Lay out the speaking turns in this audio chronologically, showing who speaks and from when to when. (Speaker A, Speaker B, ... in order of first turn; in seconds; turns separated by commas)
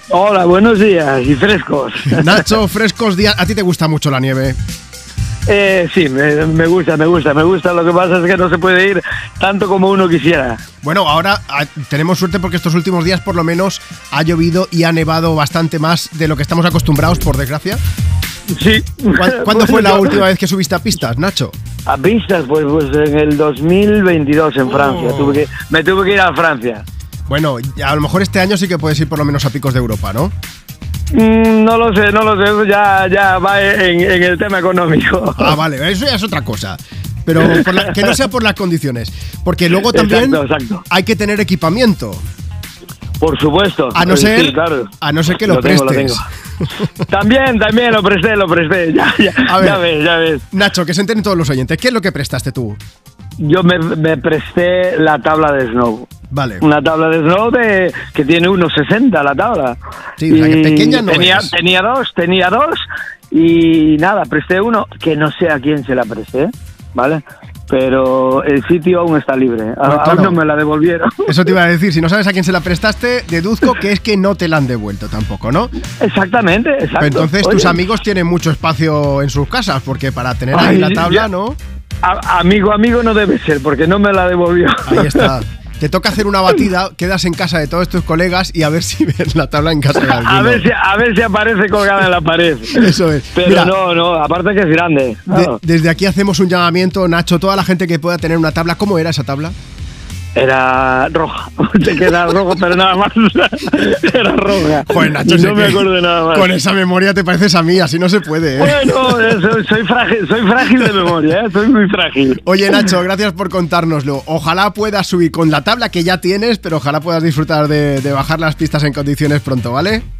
Speaker A: 0.1-2.5, Speaker B: 2.1-4.5, Speaker A: 5.5-10.6, Speaker B: 10.8-17.8, Speaker A: 18.5-20.2, Speaker B: 19.1-21.5, Speaker A: 21.9-26.8, Speaker B: 24.7-25.4, Speaker B: 27.3-30.3, Speaker A: 31.1-35.5, Speaker B: 35.4-42.2, Speaker A: 37.5-38.0, Speaker A: 39.9-40.8, Speaker A: 43.2-46.2, Speaker B: 43.9-46.2, Speaker A: 47.0-50.5, Speaker B: 49.4-49.8, Speaker B: 50.5-52.8, Speaker A: 53.4-56.1, Speaker B: 56.3-56.6, Speaker A: 56.6-71.5, Speaker B: 60.2-61.5, Speaker B: 69.8-70.4, Speaker B: 71.3-75.7, Speaker A: 76.0-77.8, Speaker B: 77.0-81.6, Speaker A: 80.5-81.3, Speaker A: 82.0-85.3, Speaker B: 84.9-90.7, Speaker A: 90.0-95.6, Speaker B: 92.7-93.7, Speaker B: 95.3-99.5, Speaker A: 100.3-106.5, Speaker B: 104.9-109.5, Speaker A: 108.5-112.8, Speaker B: 112.4-120.0